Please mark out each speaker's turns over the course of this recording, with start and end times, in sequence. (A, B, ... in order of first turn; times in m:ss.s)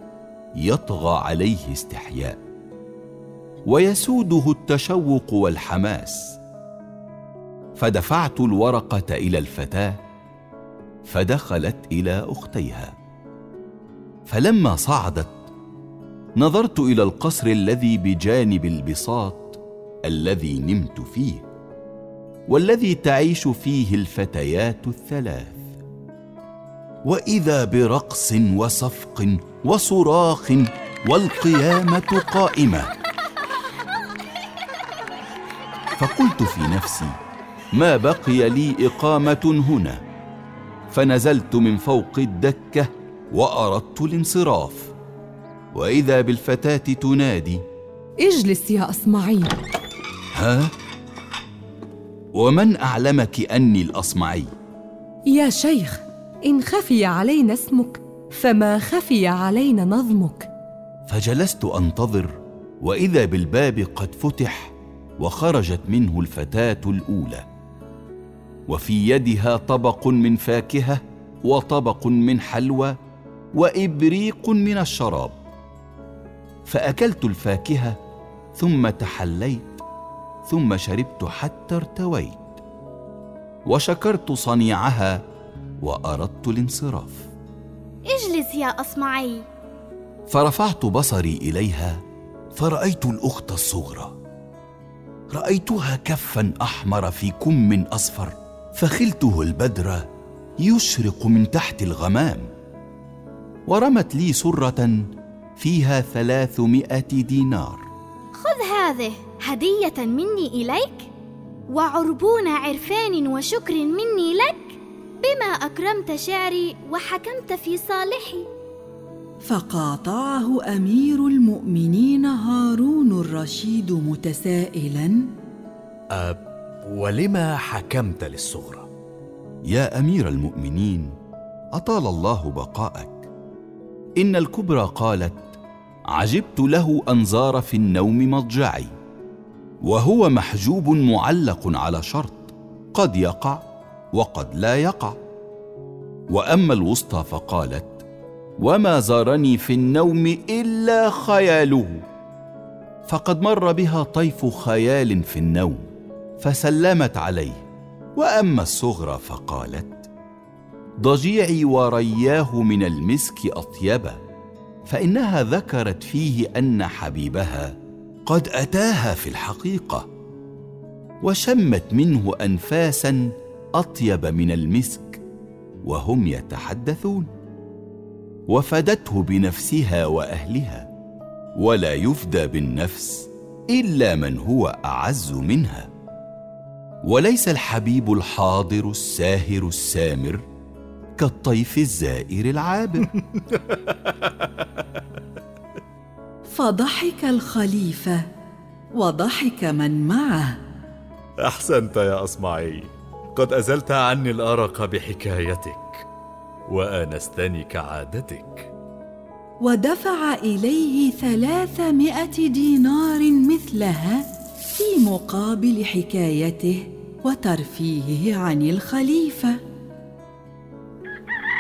0:00.6-0:02.4 A
0:03.7-0:06.4 A
0:07.8-0:10.0 A
0:11.1-0:13.0 A
0:14.3-0:15.5 A
0:16.4-0:21.5 A
0:22.5-0:25.8 A
0:27.0-0:32.9 A
0:36.0-0:37.2 A
0:37.7-0:40.0 A
0:40.9-0:44.9 A
0:45.7-0:47.6 A
0:48.2-0:49.6 B
0:50.3-0:50.7 A
0:52.4-0:54.5 A
0:55.3-1:00.5 B
1:01.1-1:07.5 A
1:08.7-1:13.0 A
1:13.6-1:15.4 A
1:16.7-1:18.0 A
1:18.6-1:19.8 A
1:20.5-1:22.6 A
1:23.7-1:25.2 A
1:25.8-1:27.3 A
1:28.1-1:29.5 C
1:30.3-1:32.0 A
1:32.6-1:34.2 A
1:35.3-1:40.1 A
1:40.6-1:42.5 A
1:43.7-1:47.9 A
1:48.4-1:51.1 C
1:51.7-1:58.5 C
1:59.4-2:05.2 D
2:06.1-2:08.9 E
2:09.7-2:11.2 A
2:11.7-2:13.3 A
2:14.2-2:15.6 A
2:16.1-2:18.9 A
2:19.8-2:23.6 A
2:24.1-2:25.2 A
2:26.3-2:28.0 A
2:28.6-2:32.0 A
2:33.1-2:35.9 A
2:36.4-2:40.1 A
2:41.0-2:44.2 A
2:44.9-2:50.1 A
2:51.2-2:55.2 A
2:55.8-2:57.3 A
2:58.5-3:00.9 A
3:01.6-3:05.9 A
3:07.0-3:10.4 A
3:11.2-3:13.1 A
3:16.5-3:18.2 D
3:19.0-3:20.6 D
3:21.4-3:26.1 E
3:26.7-3:28.7 E
3:29.6-3:39.6 D